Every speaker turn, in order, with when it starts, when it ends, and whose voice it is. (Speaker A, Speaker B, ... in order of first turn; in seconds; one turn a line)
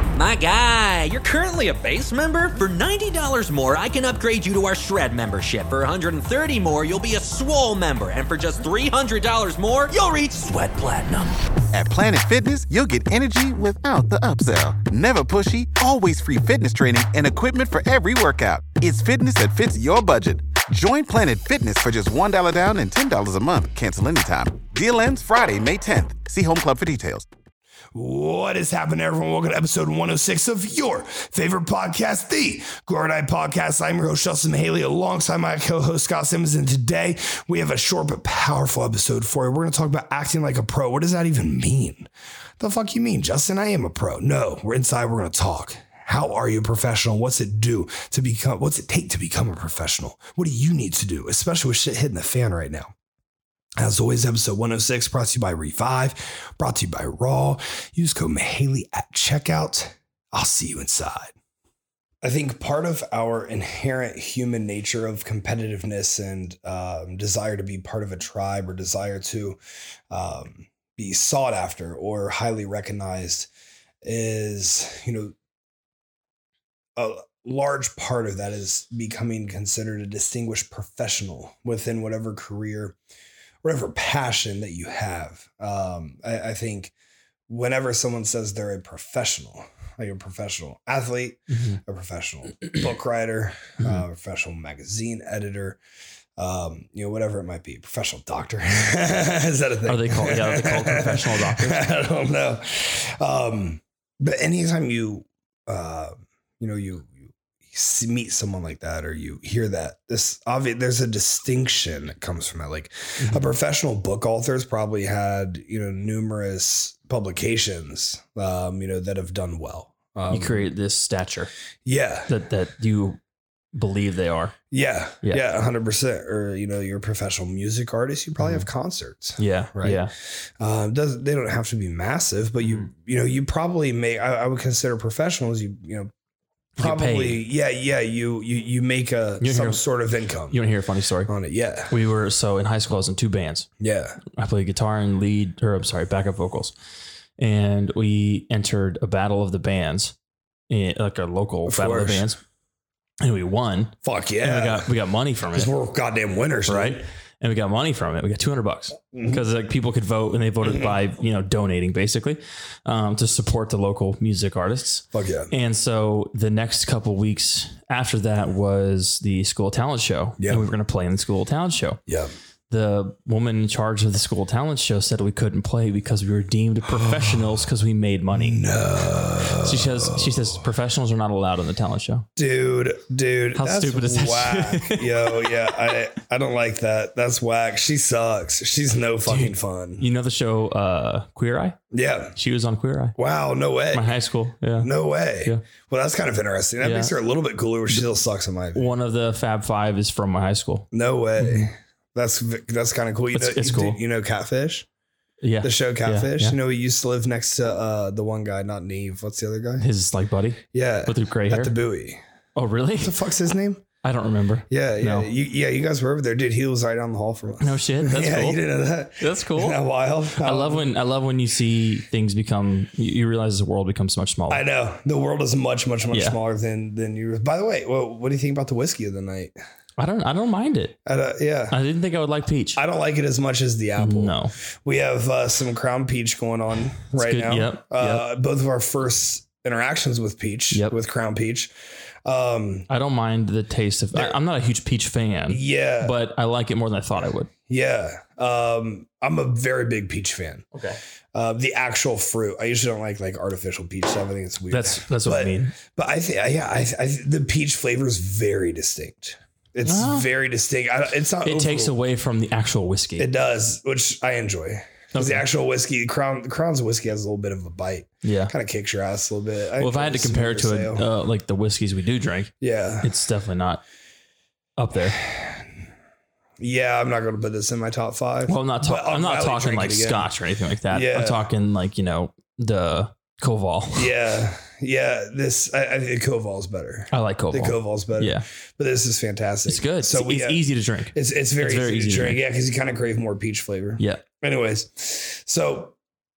Speaker A: 0.2-11.3
Speaker B: 11.7-27.3
Speaker C: 27.9-52.9
Speaker C: 53.8-61.3
Speaker C: 62.2-69.6
Speaker C: 70.1-73.5
Speaker C: 74.0-75.3
Speaker C: 77.0-83.0
Speaker C: 83.6-86.9
Speaker C: 87.5-95.8
Speaker D: 91.5-91.8
Speaker C: 96.4-120.7
Speaker D: 99.9-101.9
Speaker D: 113.2-113.5
Speaker D: 120.3-121.5
Speaker C: 121.8-122.3
Speaker D: 122.3-123.2
Speaker D: 123.7-124.5
Speaker C: 124.7-130.1
Speaker D: 128.4-128.7
Speaker D: 129.4-130.1
Speaker C: 130.6-136.1
Speaker D: 132.6-132.9
Speaker D: 136.8-137.4
Speaker C: 136.8-140.6
Speaker D: 139.4-139.8
Speaker D: 140.5-141.3
Speaker C: 141.3-141.9
Speaker D: 141.9-143.7
Speaker C: 143.8-144.2
Speaker D: 144.3-146.7
Speaker D: 147.4-150.1
Speaker D: 150.7-152.4
Speaker C: 151.7-152.3
Speaker D: 153.2-155.7
Speaker C: 154.0-154.9
Speaker C: 155.5-157.1
Speaker D: 156.7-172.0
Speaker C: 159.1-159.4
Speaker C: 160.6-160.9
Speaker C: 165.1-165.5
Speaker C: 170.4-170.7
Speaker C: 172.1-172.3
Speaker D: 172.7-178.6
Speaker C: 176.9-177.6
Speaker C: 178.3-180.6
Speaker D: 179.5-182.3
Speaker C: 182.4-190.1
Speaker D: 183.6-185.6
Speaker D: 189.3-191.8
Speaker C: 191.9-192.3
Speaker D: 192.4-193.2
Speaker C: 193.2-194.1
Speaker D: 193.9-194.9
Speaker C: 194.8-198.8
Speaker D: 196.8-197.1
Speaker D: 198.8-200.9
Speaker C: 200.9-204.9
Speaker D: 201.4-201.7
Speaker D: 203.3-204.0
Speaker D: 205.4-206.6
Speaker C: 205.6-209.9
Speaker D: 209.8-211.7
Speaker C: 210.7-212.2
Speaker D: 212.6-213.2
Speaker C: 213.0-213.8
Speaker D: 214.0-215.3
Speaker C: 214.7-220.9
Speaker D: 217.6-218.6
Speaker D: 219.2-219.8
Speaker D: 220.4-224.6
Speaker C: 224.5-229.5
Speaker D: 226.1-226.4
Speaker D: 230.0-230.9
Speaker C: 231.1-231.8
Speaker D: 231.7-232.8
Speaker C: 232.8-241.7
Speaker D: 234.0-234.5
Speaker D: 237.2-238.2
Speaker C: 242.2-242.9
Speaker D: 242.9-247.5
Speaker C: 245.5-246.2
Speaker C: 247.7-250.7
Speaker D: 250.7-251.0
Speaker C: 251.3-262.0
Speaker D: 254.7-255.7
Speaker D: 259.8-260.3
Speaker D: 261.4-263.3
Speaker C: 263.2-271.1
Speaker D: 265.1-265.4
Speaker D: 268.2-268.5
Speaker D: 269.8-272.5
Speaker C: 272.6-273.1
Speaker D: 273.0-273.8
Speaker D: 274.8-275.2
Speaker C: 275.2-275.6
Speaker C: 276.6-280.3
Speaker D: 278.5-284.1
Speaker C: 280.9-281.4
Speaker C: 283.9-295.9
Speaker D: 287.1-288.4
Speaker D: 289.7-292.4